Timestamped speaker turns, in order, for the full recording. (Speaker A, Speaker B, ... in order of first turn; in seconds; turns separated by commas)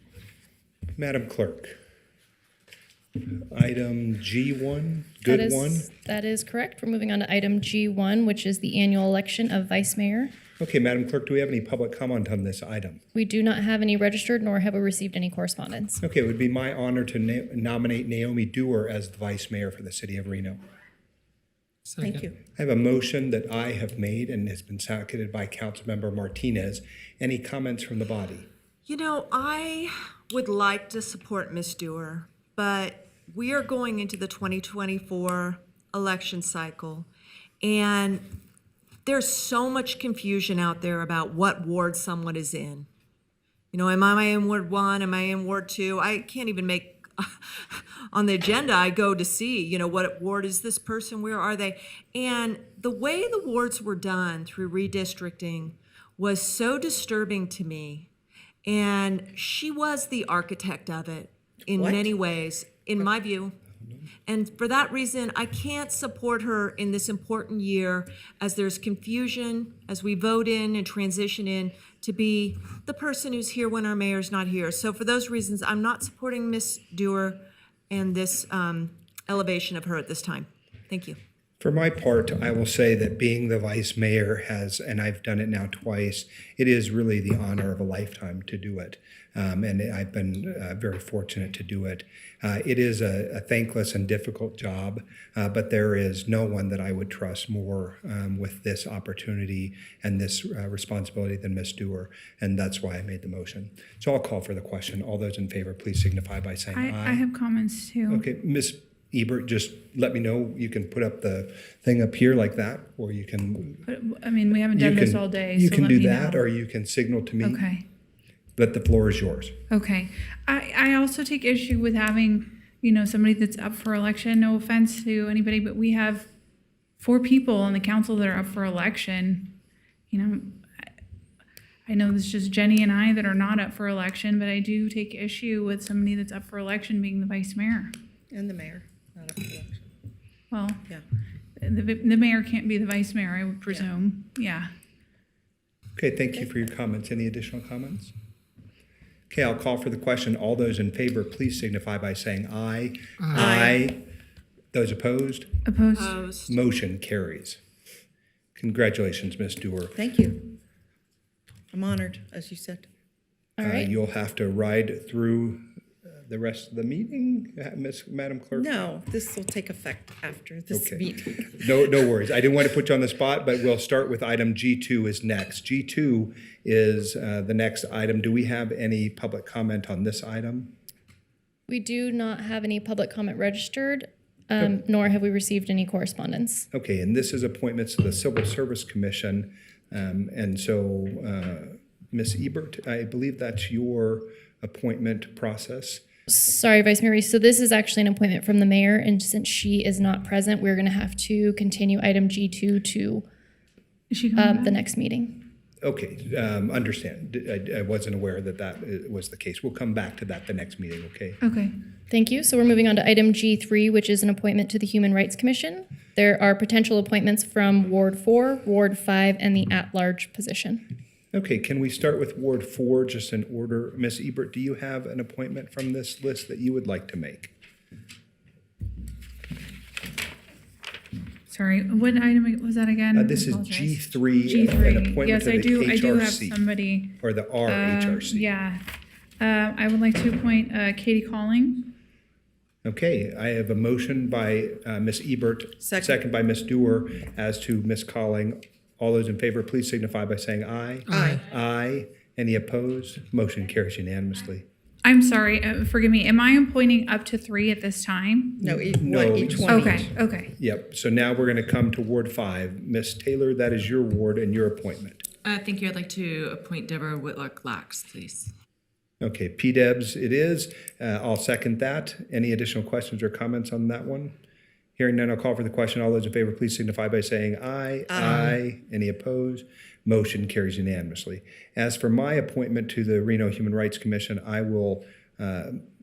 Speaker A: 0.9-1.8, Speaker A: 3.5-5.9, Speaker B: 5.3-10.3, Speaker A: 10.6-13.0, Speaker B: 13.1-16.0, Speaker A: 16.0-20.6, Speaker C: 22.0-22.3, Speaker A: 22.5-28.5, Speaker D: 28.9-37.1, Speaker D: 37.6-38.2, Speaker D: 39.0-42.9, Speaker D: 43.7-58.1, Speaker D: 58.6-63.5, Speaker C: 61.7-62.1, Speaker D: 64.3-81.2, Speaker A: 81.6-107.2, Speaker E: 106.7-108.2, Speaker A: 108.1-113.8, Speaker E: 113.8-116.4, Speaker A: 114.7-117.6, Speaker E: 117.4-117.9, Speaker A: 118.5-119.6, Speaker E: 119.7-126.3, Speaker E: 127.0-129.5, Speaker E: 130.1-130.9, Speaker E: 131.8-137.9, Speaker C: 138.3-139.9, Speaker E: 140.5-140.9, Speaker E: 141.6-144.7, Speaker A: 145.9-148.1, Speaker A: 149.3-154.0, Speaker C: 153.3-153.8, Speaker A: 154.7-155.5, Speaker E: 155.6-156.2, Speaker D: 156.0-156.6, Speaker A: 156.5-157.6, Speaker A: 158.6-160.0, Speaker C: 159.9-160.6, Speaker C: 161.7-162.9, Speaker B: 163.6-163.9, Speaker A: 163.6-165.6, Speaker A: 166.3-168.7, Speaker C: 168.5-171.5, Speaker A: 170.7-180.7, Speaker B: 181.7-186.7, Speaker A: 186.7-196.0, Speaker B: 196.3-203.2, Speaker E: 204.1-204.8, Speaker B: 204.3-205.4, Speaker A: 205.8-211.4, Speaker E: 211.4-211.8, Speaker B: 212.1-220.8, Speaker A: 221.3-227.5, Speaker E: 231.5-238.8, Speaker A: 233.1-236.6, Speaker A: 237.2-238.4, Speaker E: 239.4-241.9, Speaker A: 242.8-254.7, Speaker C: 245.8-246.2, Speaker C: 251.1-251.4, Speaker E: 255.0-258.6, Speaker A: 258.6-265.2, Speaker C: 258.6-260.1, Speaker E: 259.7-260.5, Speaker F: 265.4-268.5, Speaker A: 269.2-274.3, Speaker A: 275.0-285.8